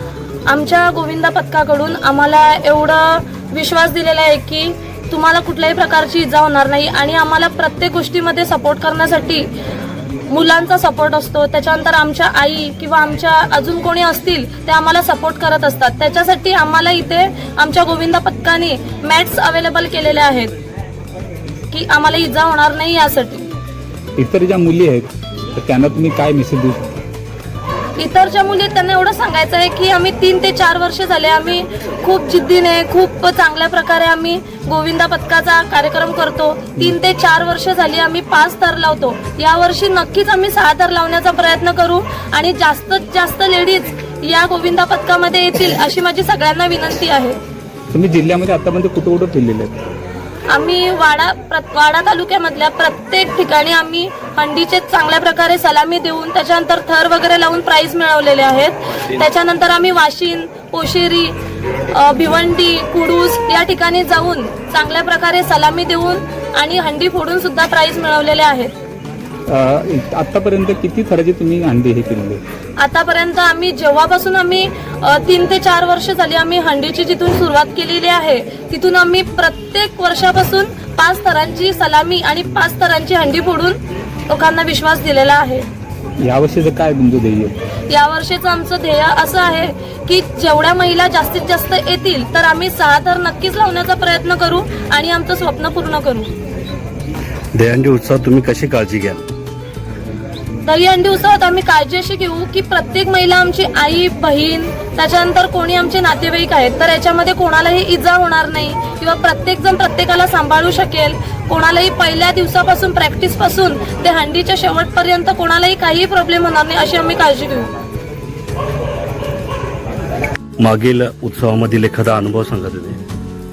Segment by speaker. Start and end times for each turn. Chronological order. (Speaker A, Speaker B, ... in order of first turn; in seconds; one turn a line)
Speaker A: 0.5-9.5
Speaker A: 10.3-20.5
Speaker A: 21.7-23.4
Speaker B: 24.2-26.9
Speaker A: 28.0-47.4
Speaker B: 47.9-49.8
Speaker A: 50.5-61.3
Speaker A: 61.9-68.7
Speaker B: 69.5-72.4
Speaker A: 72.8-83.8
Speaker A: 84.3-85.7
Speaker B: 86.2-87.5
Speaker A: 87.9-96.3
Speaker C: 97.5-99.2
Speaker A: 100.6-117.7
Speaker C: 120.6-123.0